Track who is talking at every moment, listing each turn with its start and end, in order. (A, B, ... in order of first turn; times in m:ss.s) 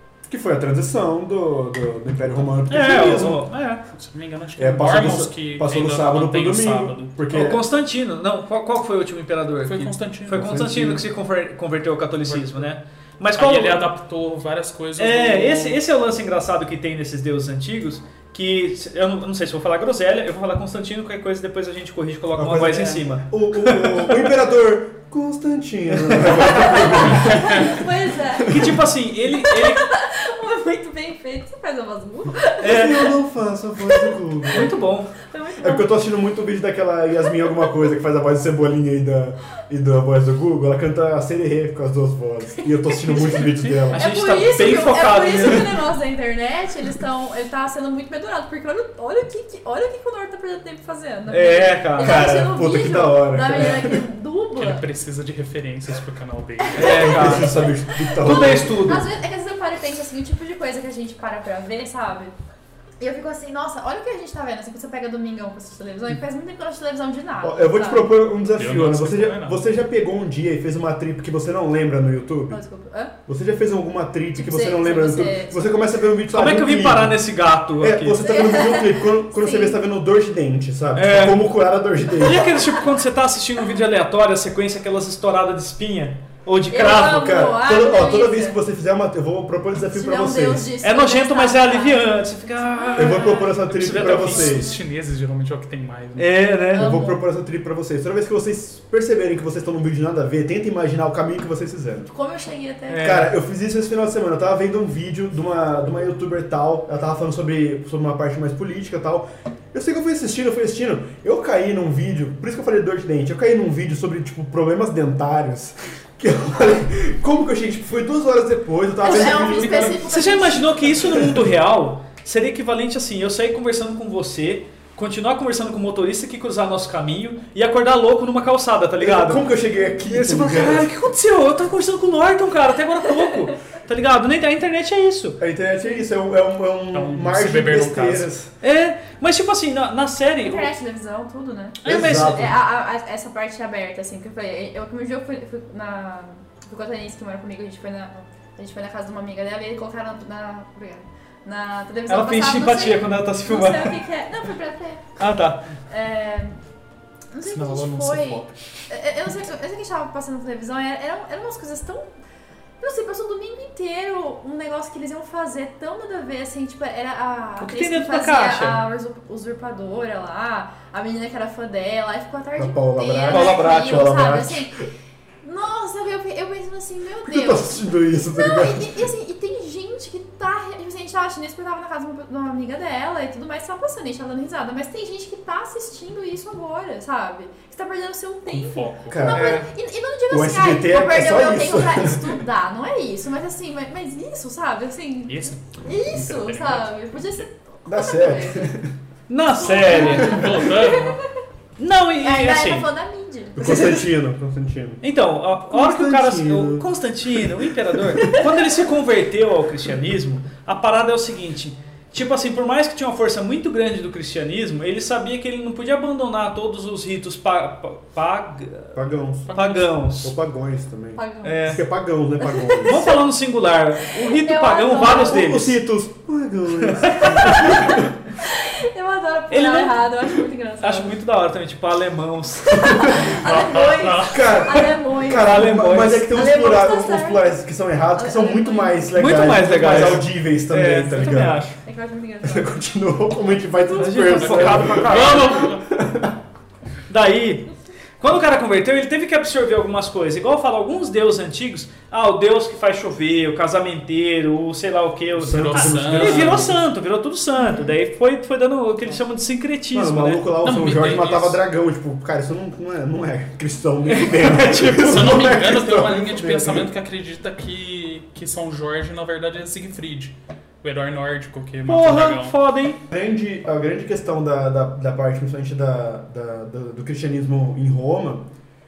0:00.2-0:03.4 A
0:02.7-0:03.8 B
0:03.9-0:07.2 C
0:04.6-0:07.6 A
0:07.3-0:13.9 B
0:09.6-0:10.6 C
0:10.3-0:11.0 A
0:12.2-0:12.7 C
0:13.4-0:15.8 C
0:15.0-0:24.3 B
0:22.4-0:27.8 A
0:25.9-0:27.0 B
0:26.4-0:33.1 D
0:27.3-0:27.6 C
0:28.4-0:28.7 A
0:28.5-0:29.8 B
0:32.6-0:33.0 B
0:32.6-0:34.7 A
0:33.8-0:34.6 D
0:34.5-0:35.1 B
0:35.3-0:35.9 D
0:35.6-0:44.7 A
0:42.9-0:54.8 D
0:43.9-0:45.8 B
0:51.3-0:52.6 B
0:52.0-0:54.0 A
0:54.6-0:57.4 C
0:56.6-1:02.3 D
0:56.7-0:59.0 B
0:57.0-0:59.0 A
1:03.0-1:08.1 D
1:07.4-1:12.6 A
1:08.5-1:09.6 C
1:12.5-1:13.1 D
1:13.3-1:17.2 A
1:14.4-1:15.6 D
1:16.3-1:18.2 B
1:17.8-1:22.6 A
1:18.2-1:19.8 D
1:20.9-1:21.5 B
1:22.2-1:27.2 B
1:26.7-1:28.6 D
1:26.8-1:30.7 A
1:29.9-1:33.6 D
1:30.8-1:34.5 B
1:32.9-1:34.8 A
1:33.7-1:36.5 C
1:34.5-1:34.7 D
1:36.2-1:36.9 B
1:36.7-1:37.2 D
1:36.7-1:42.1 A
1:42.1-1:43.1 D
1:42.9-1:43.4 B
1:43.0-2:00.1 A
1:59.0-2:01.2 D
1:59.9-2:15.4 B
2:01.0-2:01.4 A
2:09.0-2:10.9 A
2:15.4-2:18.5 A
2:16.9-2:18.3 C
2:18.6-2:20.7 B
2:20.4-2:35.1 D
2:21.8-2:22.5 B
2:21.8-2:22.5 A
2:32.1-2:34.0 B
2:35.2-2:35.7 B
2:35.9-2:36.6 D
2:37.3-2:42.1 D
2:37.4-2:38.5 C
2:42.8-2:54.8 D
2:47.6-2:48.8 B
2:52.6-2:54.7 A
2:53.3-2:54.1 B
2:55.4-3:18.7 D
2:57.3-2:59.0 A
3:08.5-3:09.4 C
3:09.1-3:09.6 A
3:09.4-3:09.6 B
3:10.3-3:12.4 A
3:15.3-3:17.0 C
3:17.8-3:18.9 A
3:19.3-3:20.5 B
3:19.6-3:21.2 D
3:20.0-3:21.2 C
3:21.8-3:22.9 B
3:22.2-3:24.0 D
3:23.6-3:25.0 A
3:25.0-3:39.0 B
3:25.7-3:28.2 A
3:38.9-3:39.5 A
3:39.5-3:40.0 C
3:39.5-3:40.3 B
3:40.2-3:43.1 A
3:41.1-3:41.7 D
3:41.4-3:41.8 B
3:42.4-3:43.2 D
3:42.8-3:45.8 B
3:44.1-3:45.4 D
3:45.0-3:48.1 A
3:46.8-3:47.6 B
3:47.2-3:51.1 D
3:49.5-3:50.1 B
3:50.8-3:53.3 B
3:52.7-3:57.5 D
3:52.9-3:53.3 A
3:53.4-3:54.5 C
3:54.2-4:01.7 A
3:55.3-3:56.4 B
3:58.1-3:59.8 D
3:59.1-4:01.8 B
4:01.8-4:02.8 D
4:02.4-4:06.4 A
4:04.0-4:05.6 B
4:04.4-4:05.9 C
4:07.1-4:20.4 B
4:15.4-4:16.7 C
4:15.4-4:16.8 A
4:17.6-4:17.9 D
4:19.9-4:26.9 A
4:20.6-4:21.6 C
4:24.0-4:25.4 B
4:25.0-4:32.6 C
4:31.8-4:33.0 B
4:33.1-4:38.5 A